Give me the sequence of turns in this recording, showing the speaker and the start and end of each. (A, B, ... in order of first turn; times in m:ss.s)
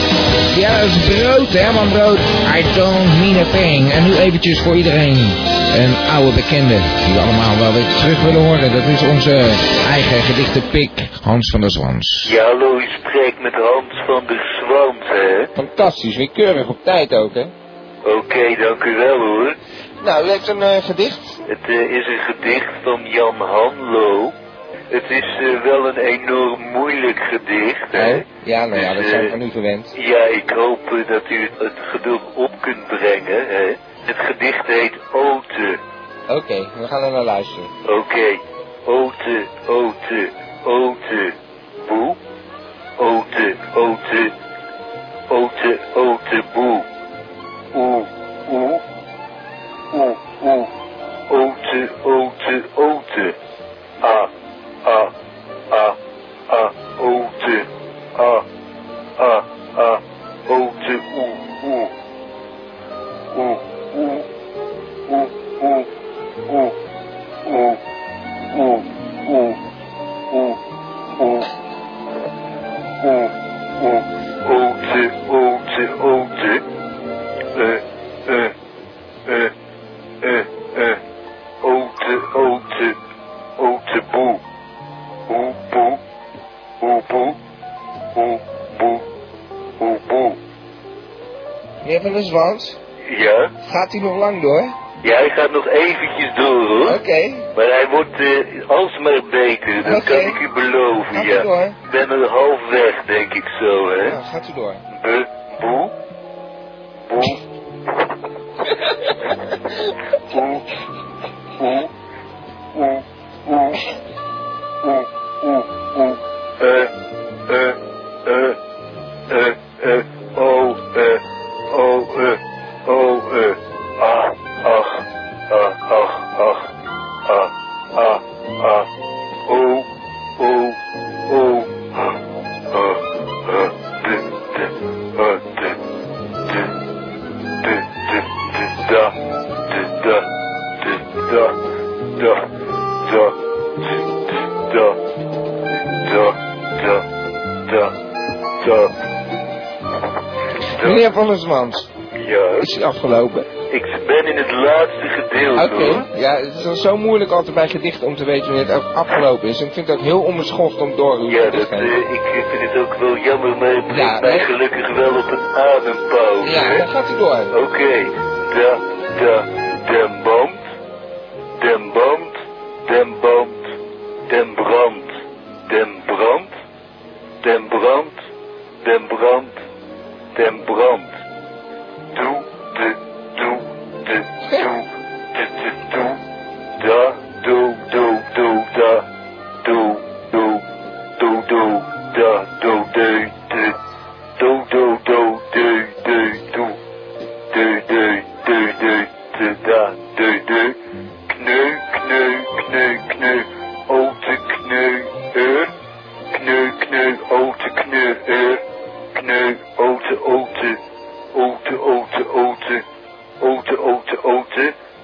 0:00.5-0:12.3 A
0:12.2-0:15.5 B
0:15.5-0:17.5 A
0:18.0-0:19.6 B
0:20.0-0:21.4 A
0:21.4-0:24.3 B
0:24.9-0:29.4 B
0:27.9-0:29.9 A
0:29.9-0:35.8 B
0:36.3-0:37.7 A
0:37.8-0:42.2 B
0:43.0-0:44.3 B
0:45.3-0:46.8 B
0:47.7-0:48.8 B
0:49.9-0:50.7 B
0:51.3-0:53.4 B
0:54.0-0:54.3 B
0:54.8-0:55.1 B
0:55.7-0:56.0 B
0:56.5-0:58.4 B
0:59.2-1:01.9 B
1:03.3-1:04.2 B
1:05.1-1:05.9 B
1:06.5-1:06.7 B
1:07.4-1:07.8 B
1:08.5-1:09.6 B
1:10.3-1:10.6 B
1:11.2-1:11.5 B
1:13.0-1:16.6 B
1:17.5-1:18.5 B
1:19.2-1:19.5 B
1:20.2-1:21.0 B
1:21.6-1:23.0 B
1:23.6-1:24.4 B
1:25.3-1:26.0 B
1:26.8-1:27.4 B
1:28.1-1:29.0 B
1:29.8-1:30.4 B
1:31.8-1:32.8 A
1:33.1-1:33.5 B
1:33.6-1:34.7 A
1:35.0-1:37.0 B
1:36.8-1:37.5 A
1:37.5-1:44.2 B
1:39.8-1:40.4 A
1:41.1-1:41.8 A
1:44.0-1:44.8 A
1:44.9-1:45.9 B
1:47.1-1:47.4 B
1:50.3-1:50.6 B
1:51.6-1:51.9 B
1:52.7-1:53.8 B
1:54.8-1:56.9 B
1:57.5-1:58.6 B
1:59.3-2:06.7 B
2:07.2-2:08.9 B
2:09.5-2:09.8 B
2:10.4-2:10.8 B
2:11.3-2:12.2 B
2:12.7-2:15.8 B
2:17.6-2:19.1 B
2:19.7-2:20.3 B
2:20.8-2:21.6 B
2:22.2-2:22.4 B
2:23.0-2:23.3 B
2:24.6-2:25.0 B
2:26.0-2:27.0 B
2:27.6-2:27.9 B
2:28.6-2:28.9 B
2:30.8-2:31.9 A
2:32.2-2:32.7 B
2:32.6-2:33.5 A
2:33.7-2:36.0 B
2:35.6-2:41.9 A
2:41.3-2:46.9 B
2:43.9-2:44.5 A
2:46.4-2:47.6 A
2:47.5-2:50.6 B
2:51.6-2:53.7 B
2:54.3-2:56.5 B
2:57.4-2:58.2 B
2:58.8-2:59.6 B
3:00.3-3:01.1 B
3:02.1-3:06.2 B
3:06.8-3:09.0 B
3:09.6-3:10.6 B
3:11.2-3:13.7 B
3:14.4-3:16.8 B
3:17.5-3:20.8 B
3:21.3-3:25.7 B
3:26.3-3:28.6 B
3:29.1-3:30.8 B
3:31.3-3:32.8 B
3:33.4-3:34.7 B